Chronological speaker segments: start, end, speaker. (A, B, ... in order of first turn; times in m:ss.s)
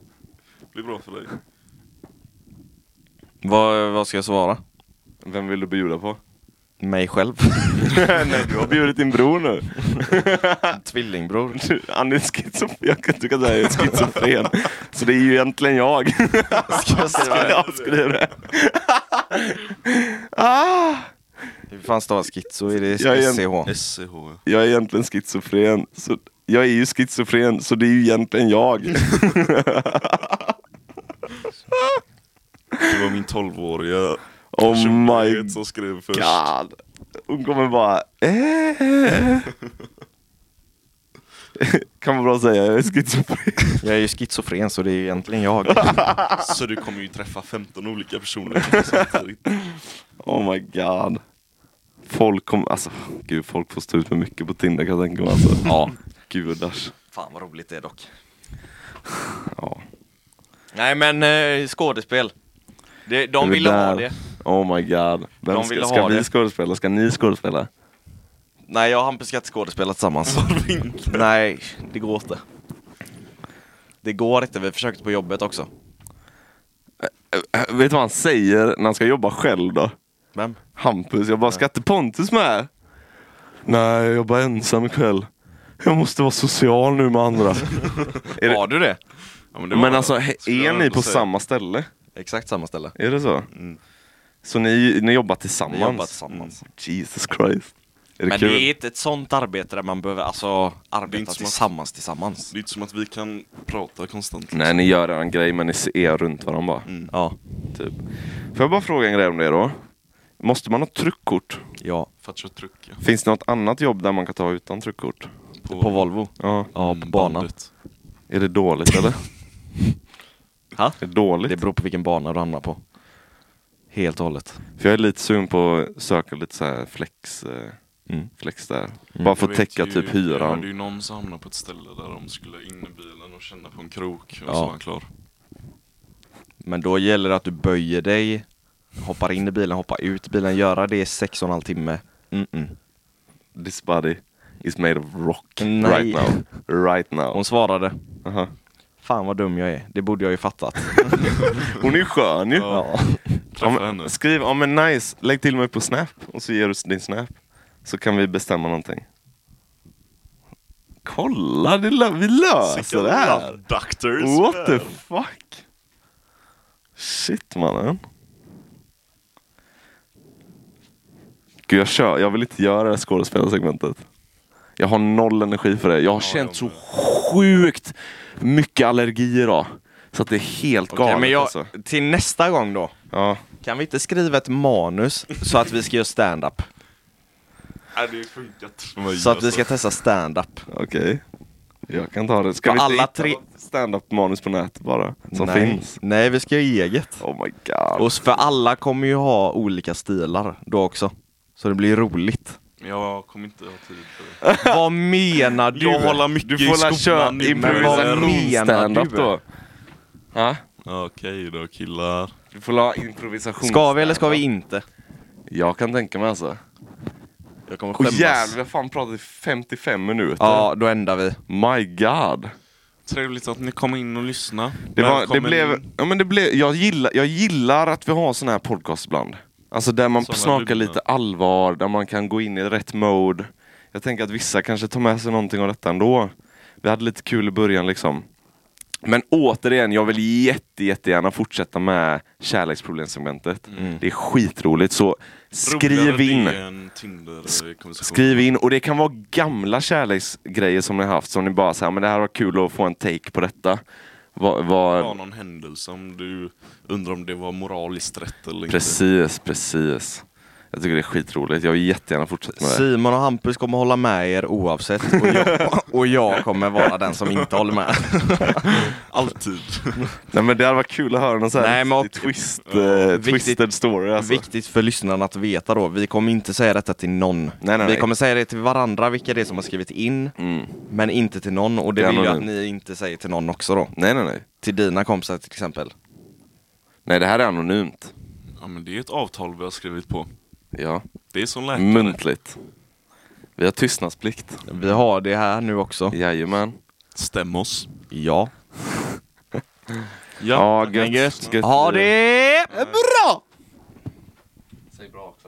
0:00.7-0:01.4 A
0:03.4-0:04.6 B
0:05.2-0:06.2 C
0:06.8-0:08.0 B
0:07.8-0:10.8 C
0:10.7-0:11.6 B
0:11.5-0:21.1 C
0:16.7-0:18.0 A
0:16.7-0:17.6 B
0:21.7-0:23.7 B
0:23.0-0:23.4 C
0:23.6-0:24.4 A
0:24.4-0:30.5 C
0:31.7-0:32.0 C
0:32.8-0:36.4 A
0:34.5-0:35.6 C
0:36.1-0:36.8 C
0:37.3-0:39.5 C
0:41.5-0:43.8 C
0:43.8-0:46.2 B
0:45.8-0:46.4 C
0:46.3-0:49.4 A
0:48.5-0:51.2 C
0:52.0-0:56.9 C
0:55.6-0:55.9 B
0:57.1-0:58.1 B
0:59.4-0:59.8 C
1:00.7-1:02.3 B
1:03.0-1:04.2 B
1:03.4-1:07.7 C
1:05.5-1:06.3 B
1:08.7-1:10.5 B
1:10.2-1:11.3 A
1:11.1-1:12.4 B
1:14.0-1:15.7 B
1:17.0-1:19.9 C
1:20.3-1:20.6 B
1:20.8-1:22.7 C
1:23.6-1:25.3 C
1:25.8-1:28.6 C
1:28.4-1:29.0 B
1:29.5-1:31.3 A
1:29.7-1:31.9 C
1:32.2-1:32.9 B
1:33.0-1:33.5 C
1:33.5-1:33.8 A
1:34.4-1:38.7 C
1:35.7-1:36.6 B
1:36.3-1:36.5 A
1:38.3-1:42.5 B
1:41.0-1:41.7 A
1:42.5-1:44.9 A
1:44.5-1:46.9 C
1:46.8-1:47.1 A
1:47.1-1:47.4 B
1:47.7-1:49.8 C
1:50.4-1:51.6 C
1:51.8-1:52.1 B
1:52.2-1:53.0 A
1:53.0-1:55.3 C
1:55.6-1:56.1 A
1:55.7-1:57.5 B
1:56.4-1:56.7 C
1:56.8-1:57.7 A
1:58.3-1:59.2 C
2:00.7-2:02.8 B
2:01.0-2:01.6 C
2:03.9-2:04.6 B
2:04.8-2:07.8 C
2:08.4-2:10.6 C
2:09.3-2:15.1 A
2:14.5-2:14.7 B
2:16.6-2:18.4 B
2:19.0-2:22.8 B
2:23.5-2:27.4 C
2:25.6-2:26.4 B
2:27.3-2:28.1 B
2:28.2-2:28.5 C
2:29.0-2:31.5 B
2:31.1-2:32.8 C
2:32.5-2:34.1 A
2:32.7-2:33.4 B
2:33.6-2:39.0 C
2:41.0-2:43.6 C
2:42.6-2:44.9 A
2:44.2-2:45.6 C
2:47.0-2:48.0 C
2:51.7-2:54.0 C
2:54.8-3:01.7 C
2:56.2-2:56.8 A
3:00.9-3:02.9 B
3:03.1-3:03.4 C
3:03.6-3:06.7 B
3:07.9-3:09.9 A
3:09.1-3:10.7 B
3:10.7-3:11.2 C
3:11.9-3:16.0 C
3:12.6-3:13.4 B
3:15.3-3:17.2 B
3:17.2-3:18.2 C
3:18.0-3:22.6 B
3:22.8-3:24.4 A
3:24.4-3:24.8 C
3:24.5-3:26.2 B
3:25.7-3:28.5 A
3:26.4-3:29.4 C
3:27.5-3:29.3 B
3:30.3-3:30.6 C
3:30.8-3:32.4 A
3:32.5-3:34.4 C
3:33.6-3:34.8 B
3:35.5-3:36.6 C
3:37.7-3:38.6 B
3:38.0-3:40.7 C
3:40.4-3:41.4 B
3:41.5-3:42.5 C
3:43.0-3:45.9 A
3:44.9-3:58.2 C
3:50.2-3:51.0 A
3:59.0-4:06.6 C
4:03.8-4:04.0 B
4:05.6-4:08.4 A
4:08.0-4:13.8 C
4:14.3-4:15.2 C
4:14.9-4:19.0 A
4:18.7-4:22.8 C
4:22.6-4:29.0 B
4:25.2-4:25.6 C
4:28.7-4:30.1 A
4:30.3-4:34.5 C
4:31.5-4:32.4 B
4:32.6-4:33.2 A
4:33.1-4:33.6 B
4:34.2-4:40.4 B
4:37.6-4:38.1 C
4:40.4-4:40.8 C
4:40.9-4:43.9 B
4:42.0-4:42.5 C
4:43.9-4:44.4 C
4:44.6-4:45.9 B
4:47.0-4:48.1 C
4:48.6-4:50.3 A
4:50.7-4:51.0 C
4:51.3-4:52.2 A
4:51.7-4:52.6 C
4:53.6-4:54.6 C
4:54.6-4:56.2 B
4:56.1-4:56.8 C
4:57.1-4:57.9 A
4:58.1-4:58.5 B
5:00.4-5:01.6 A
5:00.5-5:02.1 C
5:00.9-5:03.4 B
5:05.0-5:05.3 C